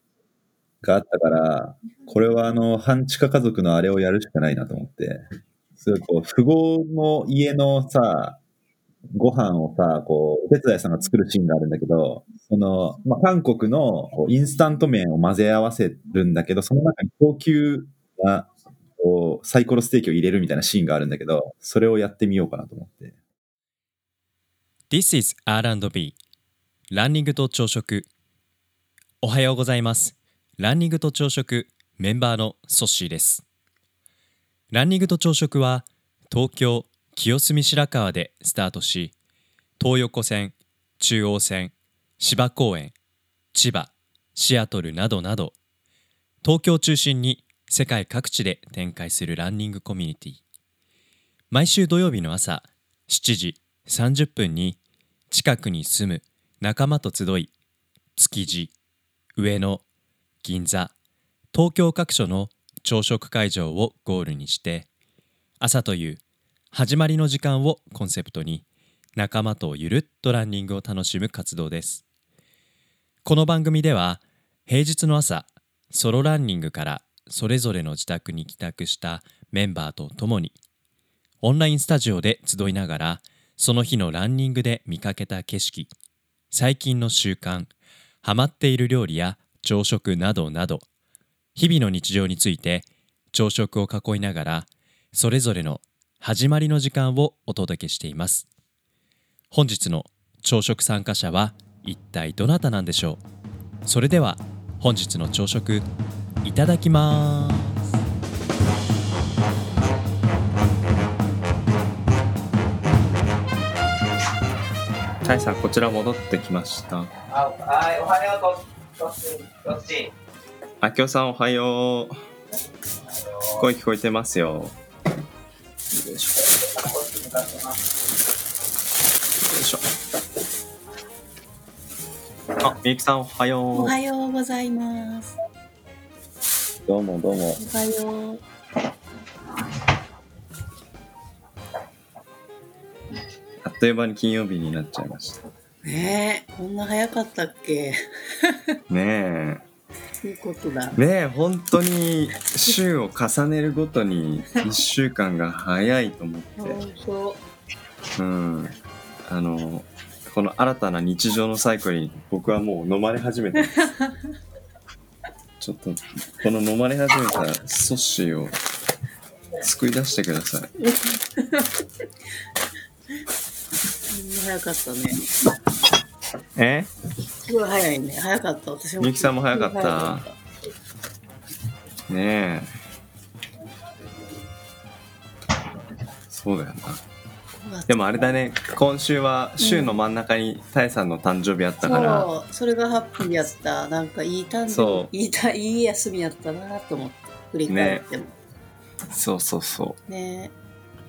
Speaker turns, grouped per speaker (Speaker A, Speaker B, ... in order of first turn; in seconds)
Speaker A: 0.8-5.2, 5.8-8.4, 9.1-23.1
Speaker B: 24.9-26.1, 26.9-28.1, 29.2-33.4, 34.7-39.1, 39.8-42.9, 43.5-45.5, 46.4-50.4, 51.5-54.8, 55.3-57.5, 58.1-58.7, 59.4-59.8, 60.4-60.9, 61.5-64.9, 65.6-66.2, 66.7-68.6, 69.2-72.0, 73.2-80.5, 81.4-85.9, 86.5-87.7, 88.2-90.8, 91.5-98.5, 99.5-103.2, 103.8-105.9, 106.4-107.8
Speaker C: 115.2-117.1, 120.8-122.2, 123.6-124.8, 125.9-126.4, 129.4-129.8, 132.6-133.9, 136.8-137.6, 143.6-145.4, 148.9-149.6, 151.0-156.8, 158.2-158.7, 159.2-163.8, 165.6-168.6, 169.6-170.7, 176.6-176.9, 179.0-180.2, 182.1-182.7, 186.3-187.0, 187.9-192.3, 194.7-195.1, 197.7-198.0, 199.1-200.0
Speaker D: 117.3-120.1, 123.2-123.6, 126.8-127.8
Speaker E: 133.7-135.3, 137.6-138.4, 145.8-148.8, 150.2-151.0, 156.6-157.4, 170.8-171.7, 174.1-175.2, 177.5-180.3, 187.6-188.3, 189.6-190.0, 191.8-198.3, 200.1-200.5